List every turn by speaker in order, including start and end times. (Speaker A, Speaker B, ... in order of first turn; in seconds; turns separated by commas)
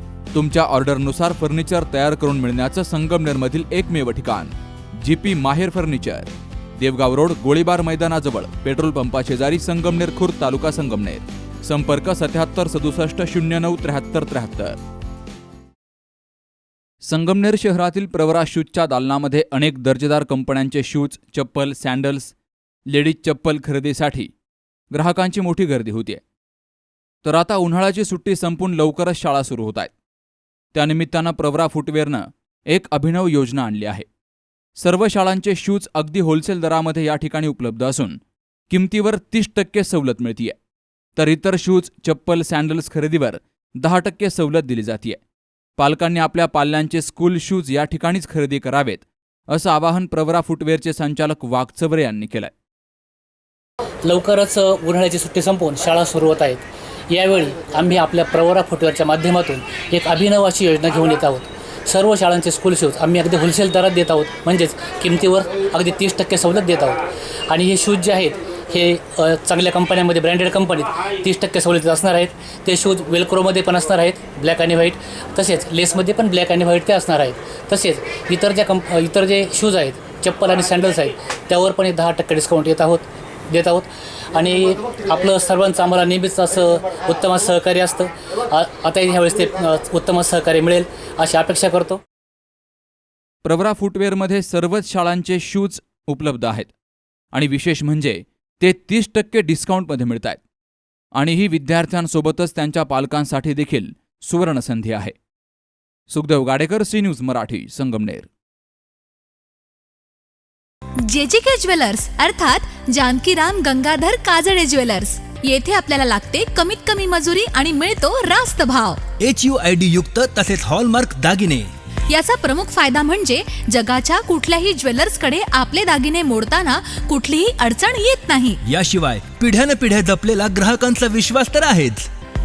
Speaker A: 0.3-14.8, Speaker A: 17.0-22.3, Speaker A: 22.9-24.3, Speaker A: 24.9-26.2, Speaker A: 27.2-29.9, Speaker A: 30.7-34.0, Speaker A: 34.8-38.2, Speaker A: 38.7-40.6, Speaker A: 41.1-45.2, Speaker A: 45.8-52.5, Speaker B: 54.0-67.0, Speaker B: 67.5-92.0, Speaker A: 93.4-96.7, Speaker A: 97.3-100.4, Speaker A: 101.1-105.1, Speaker A: 106.1-108.3, Speaker C: 111.0-119.0, Speaker D: 119.2-121.7, Speaker C: 122.1-128.6, Speaker D: 128.6-132.1